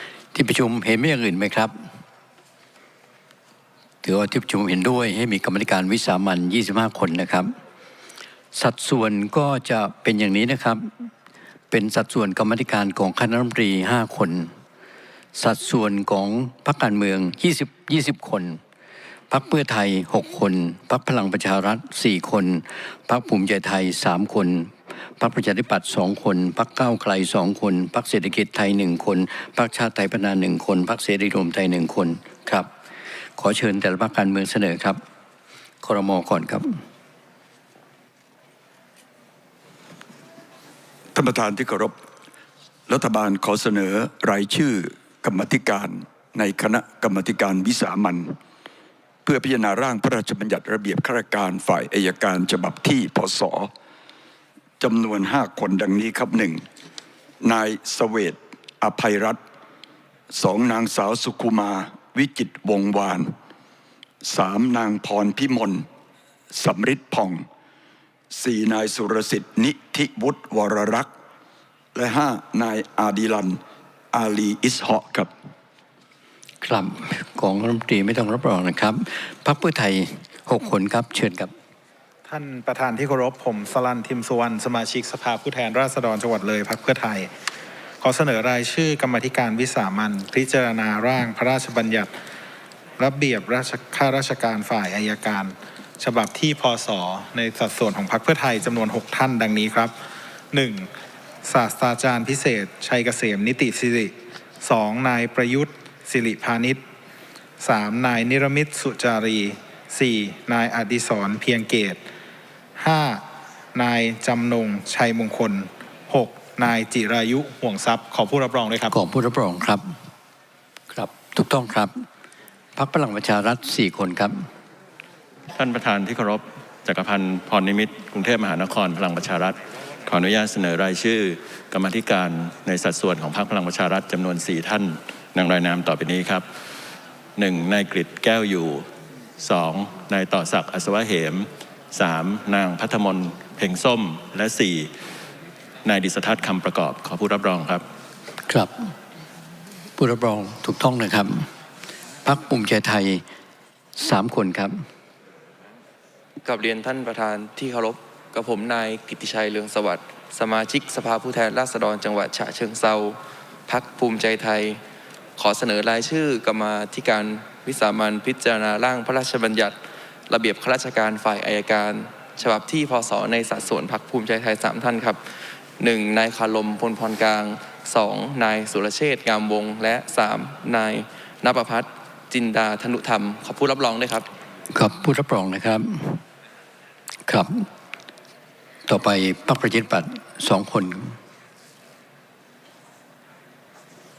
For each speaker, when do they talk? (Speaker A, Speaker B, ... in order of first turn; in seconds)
Speaker A: 0.3-1.7, 4.0-7.5, 8.5-11.1, 11.7-14.5, 15.3-18.6, 19.3-32.7, 33.4-35.0, 35.8-36.6, 76.6-81.5, 118.9-119.9, 120.9-122.0, 122.8-124.5, 148.5-148.9, 150.0-151.5, 152.2-153.2, 153.9-154.7, 184.7-186.2, 187.3-187.7, 188.9-191.2
Speaker B: 41.1-42.0, 42.9-48.4, 49.2-53.7, 54.8-56.6, 57.4-59.4, 60.3-63.3, 64.2-65.9, 66.5-67.5, 68.3-71.1, 71.9-73.6, 74.1-75.3
Speaker C: 82.2-87.3, 88.0-92.1, 93.0-99.9, 100.5-100.9, 101.4-106.8, 107.6-112.0, 112.8-118.9
Speaker D: 125.5-136.4, 137.4-138.8, 139.4-144.9, 145.8-147.8
Speaker E: 156.4-164.8, 165.4-169.8, 170.3-175.2, 175.8-184.2